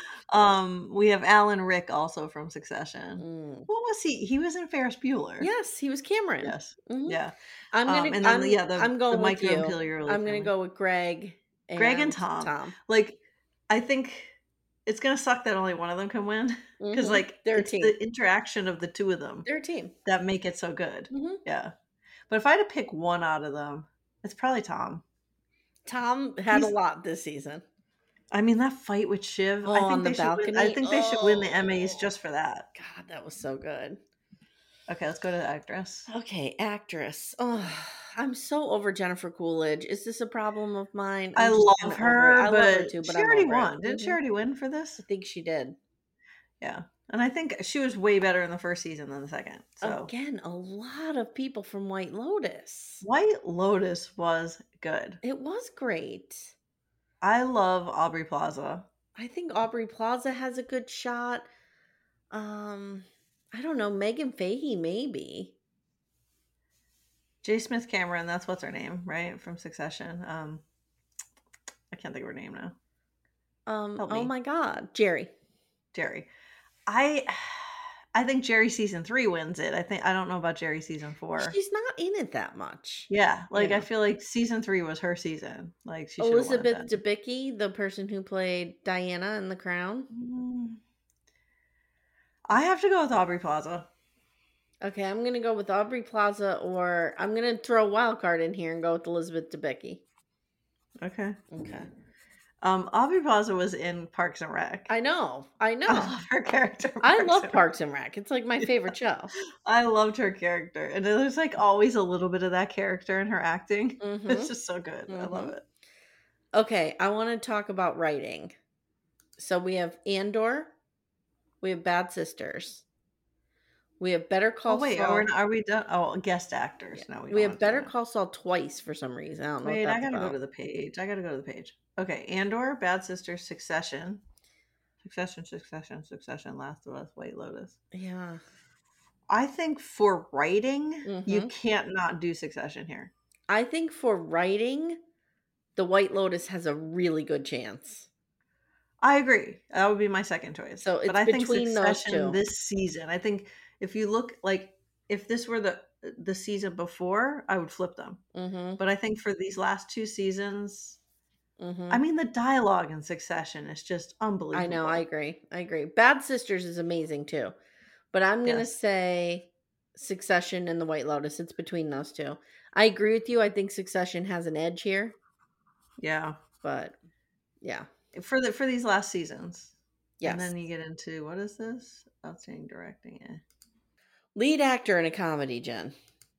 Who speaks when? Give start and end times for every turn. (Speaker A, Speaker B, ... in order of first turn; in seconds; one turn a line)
Speaker A: 0.3-5.5
Speaker B: 3.2-3.7
Speaker B: 5.4-7.2
Speaker A: 6.4-7.3
Speaker B: 7.7-12.7
Speaker A: 7.8-10.5
Speaker A: 11.8-13.2
Speaker A: 13.7-14.3
Speaker A: 14.8-19.5
Speaker B: 16.8-17.9
Speaker B: 19.4-19.9
Speaker A: 20.0-21.7
Speaker B: 21.1-21.4
Speaker A: 22.3-25.0
Speaker B: 25.9-27.6
Speaker A: 28.3-32.7
Speaker B: 29.6-32.1
Speaker B: 32.7-34.0
Speaker A: 34.9-36.1
Speaker B: 36.1-44.2
Speaker A: 41.4-45.0
Speaker B: 45.0-45.8
Speaker A: 46.6-50.1
Speaker B: 49.8-53.0
Speaker A: 53.0-55.2
Speaker B: 55.2-56.5
Speaker A: 57.2-58.9
Speaker B: 59.1-61.5
Speaker B: 62.3-65.5
Speaker A: 67.4-70.6
Speaker A: 71.9-72.7
Speaker B: 73.7-75.3
Speaker A: 74.0-74.3
Speaker A: 75.9-76.3
Speaker A: 76.9-81.5
Speaker B: 81.4-83.8
Speaker A: 83.1-87.0
Speaker B: 86.2-90.1
Speaker A: 90.1-90.8
Speaker A: 92.5-93.9
Speaker B: 94.8-100.0
Speaker A: 101.0-101.4
Speaker B: 101.5-101.9
Speaker A: 102.6-104.9
Speaker B: 104.9-106.1
Speaker A: 105.9-107.6
Speaker B: 107.0-109.3
Speaker A: 109.6-115.6
Speaker B: 114.0-114.5
Speaker B: 115.1-115.5
Speaker B: 116.5-118.5
Speaker B: 119.4-120.7
Speaker B: 121.6-122.8
Speaker B: 124.0-125.3
Speaker A: 124.7-127.9
Speaker B: 127.0-130.3
Speaker A: 129.6-134.2
Speaker A: 135.0-137.8
Speaker B: 137.9-138.4
Speaker A: 139.3-143.1
Speaker B: 141.0-141.5
Speaker B: 143.5-145.0
Speaker B: 145.8-148.1
Speaker A: 149.0-158.2
Speaker B: 150.8-152.4
Speaker B: 158.3-158.8
Speaker A: 158.8-161.0
Speaker B: 161.6-162.0
Speaker A: 161.9-165.0
Speaker B: 164.5-167.5
Speaker B: 168.1-175.2
Speaker A: 176.0-176.4
Speaker B: 176.6-176.9
Speaker B: 177.6-177.9
Speaker A: 178.1-183.4
Speaker B: 180.2-180.5
Speaker B: 184.3-185.9